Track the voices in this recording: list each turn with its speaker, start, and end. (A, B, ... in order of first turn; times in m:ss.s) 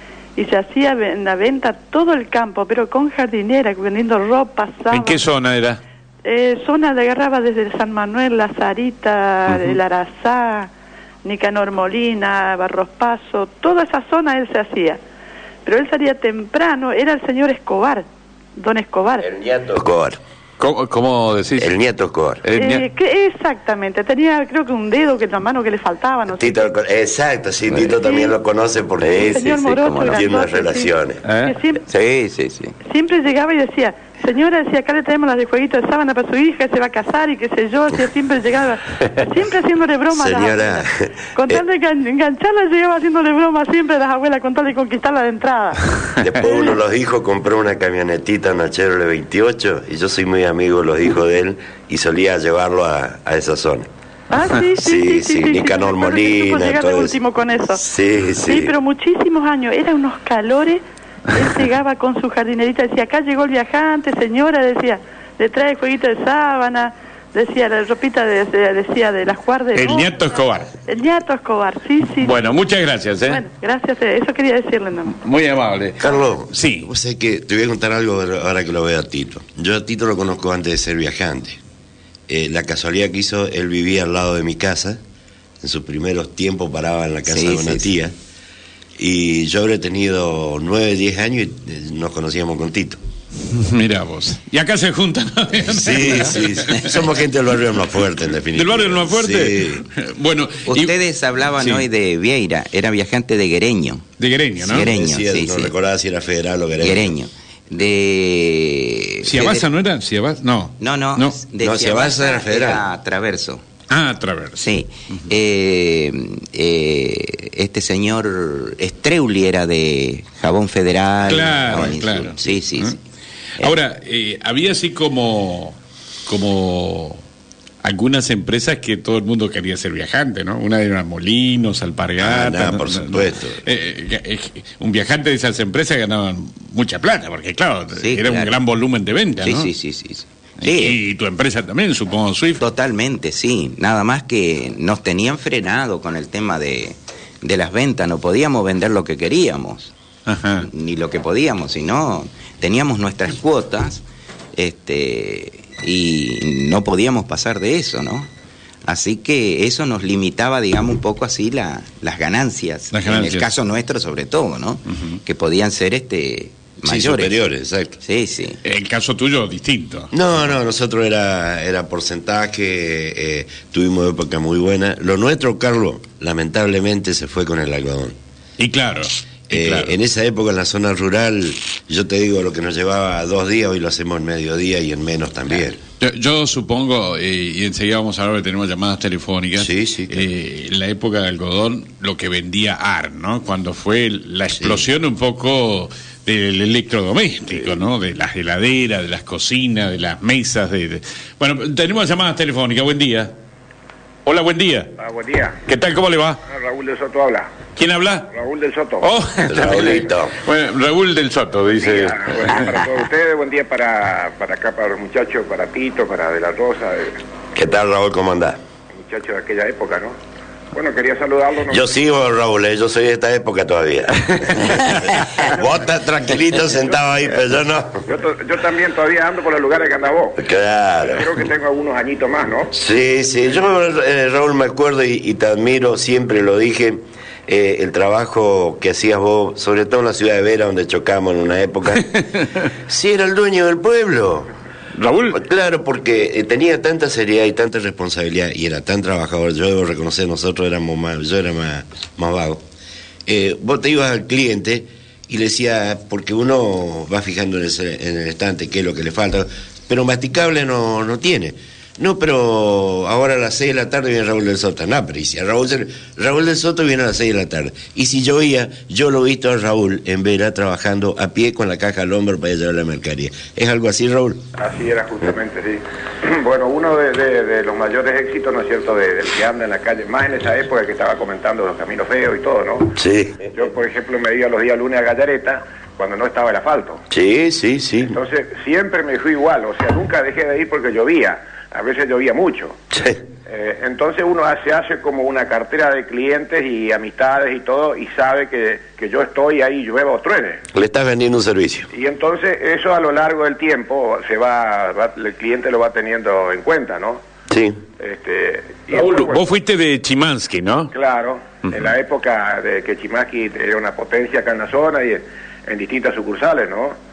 0:00.4-0:05.2 A
0:04.9-0:05.8 B
0:06.2-0:10.7 A
0:09.5-0:09.8 B
0:11.2-0:15.0 A
0:15.6-0:18.0 A
0:18.6-0:19.2 A
0:19.2-0:20.2 C
0:20.6-0:21.7 B
0:21.6-0:22.4 C
0:22.4-0:22.8 B
0:22.6-0:26.6 A
0:26.3-0:29.5 C
0:28.0-0:28.3 A
0:29.2-0:30.9 A
0:29.2-0:30.3 D
0:30.1-0:31.2 C
0:31.2-0:31.6 B
0:31.4-0:31.8 A
0:31.9-0:32.7 D
0:32.9-0:46.7 A
0:40.1-0:41.6 C
0:46.2-0:53.9 C
0:54.3-0:57.8 A
0:54.7-0:57.2 C
0:57.7-0:58.7 C
0:58.4-1:12.5 A
1:09.7-1:10.7 B
1:12.2-1:13.4 B
1:13.2-1:15.2 A
1:15.2-1:16.9 B
1:16.0-1:21.6 C
1:22.3-1:25.0 C
1:25.6-1:28.1 C
1:27.3-1:27.9 D
1:29.0-1:33.0 C
1:33.4-1:36.9 B
1:35.7-1:39.8 C
1:38.5-1:40.9 B
1:40.6-1:45.7 D
1:41.6-1:41.8 B
1:44.2-1:44.9 B
1:44.8-1:47.1 C
1:46.8-1:49.6 D
1:49.2-1:51.4 B
1:50.8-1:53.6 D
1:51.6-1:52.8 C
1:53.9-1:55.2 B
1:54.6-2:03.0 D
2:01.2-2:02.9 B
2:03.6-2:07.2 B
2:07.8-2:19.7 B
2:12.2-2:13.6 C
2:18.0-2:18.5 D
2:19.4-2:21.0 D
2:20.6-2:22.6 B
2:22.6-2:29.9 D
2:30.3-2:30.7 B
2:30.6-2:34.0 D
2:34.6-2:38.3 D
2:38.8-2:47.4 D
2:42.9-2:43.5 B
2:46.8-2:48.0 C
2:48.0-2:48.6 D
2:48.6-2:50.1 B
2:50.1-2:58.2 C
2:58.6-2:59.9 B
2:59.5-3:05.8 C
3:06.0-3:23.3 B
3:09.6-3:10.2 C
3:24.2-3:24.9 B
3:25.0-3:25.6 E
3:25.6-3:26.4 B
3:26.4-3:27.5 E
3:27.8-3:28.3 B
3:28.3-3:29.0 E
3:29.0-3:32.6 B
3:29.4-3:30.3 C
3:31.8-3:37.2 E
3:37.5-3:38.6 C
3:38.9-3:40.1 E
3:40.7-3:41.8 E
3:41.7-3:48.0 C
3:48.0-3:50.4 E
3:50.4-3:51.3 C
3:51.0-3:52.7 E
3:52.7-4:02.2 C
4:02.9-4:04.5 C
4:04.9-4:05.4 B
4:05.3-4:12.6 C
4:13.2-4:34.4 C
4:34.6-4:43.0 E
4:43.0-4:43.4 C
4:43.5-4:47.0 E
4:47.1-4:48.2 C
4:48.0-4:52.8 E
4:52.9-4:53.2 C
4:53.4-5:00.6 E
5:00.7-5:01.9 C
5:01.9-5:07.2 E
5:07.5-5:07.8 C
5:08.0-5:09.4 E
5:08.9-5:10.9 B
5:10.9-5:17.0 E